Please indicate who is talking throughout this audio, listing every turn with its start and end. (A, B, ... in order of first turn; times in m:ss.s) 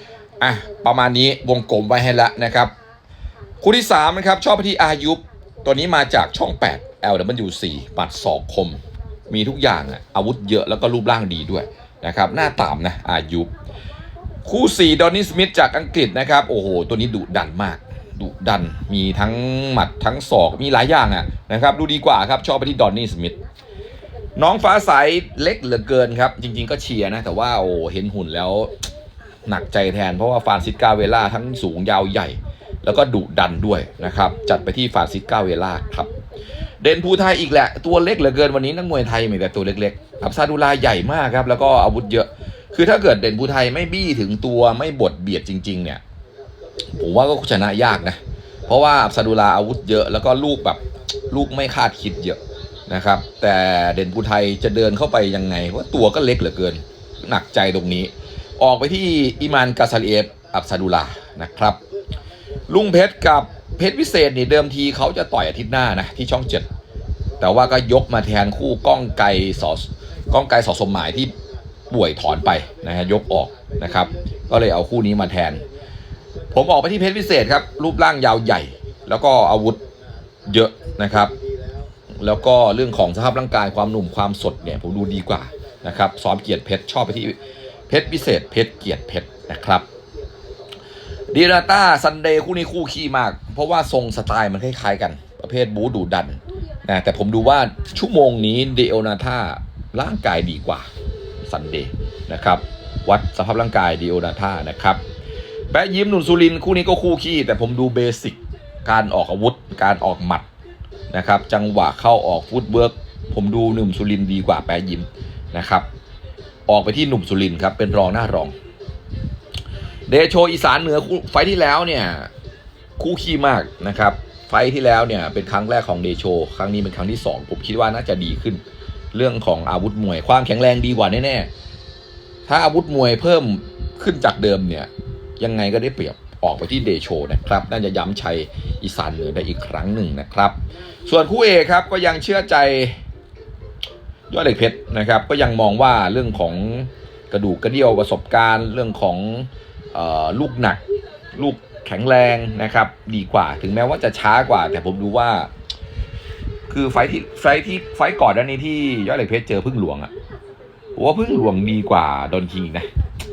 0:00.4-0:02.7 A
0:03.6-0:13.5 A
0:14.4-0:23.4 A
0:24.4-0:28.7 A
0:29.5-0:36.1 A
0:36.8-0:46.0 A
0:47.0-1:01.8 A
1:02.7-1:06.7 A
1:07.4-1:11.3 A
1:11.9-1:15.6 A
1:16.5-1:19.8 A
1:20.5-1:21.3 A
1:22.2-1:27.4 A
1:27.9-1:29.8 A
1:31.3-1:40.9 A
1:41.5-1:45.0 A
1:45.7-1:50.5 A
1:51.1-1:55.9 A
1:56.7-1:58.5 A
2:00.1-2:02.3 A
2:03.0-2:08.6 A
2:09.1-2:11.5 A
2:12.5-2:23.0 A
2:24.3-2:30.8 A
2:31.4-2:35.5 A
2:36.7-2:40.1 A
2:41.0-2:42.9 A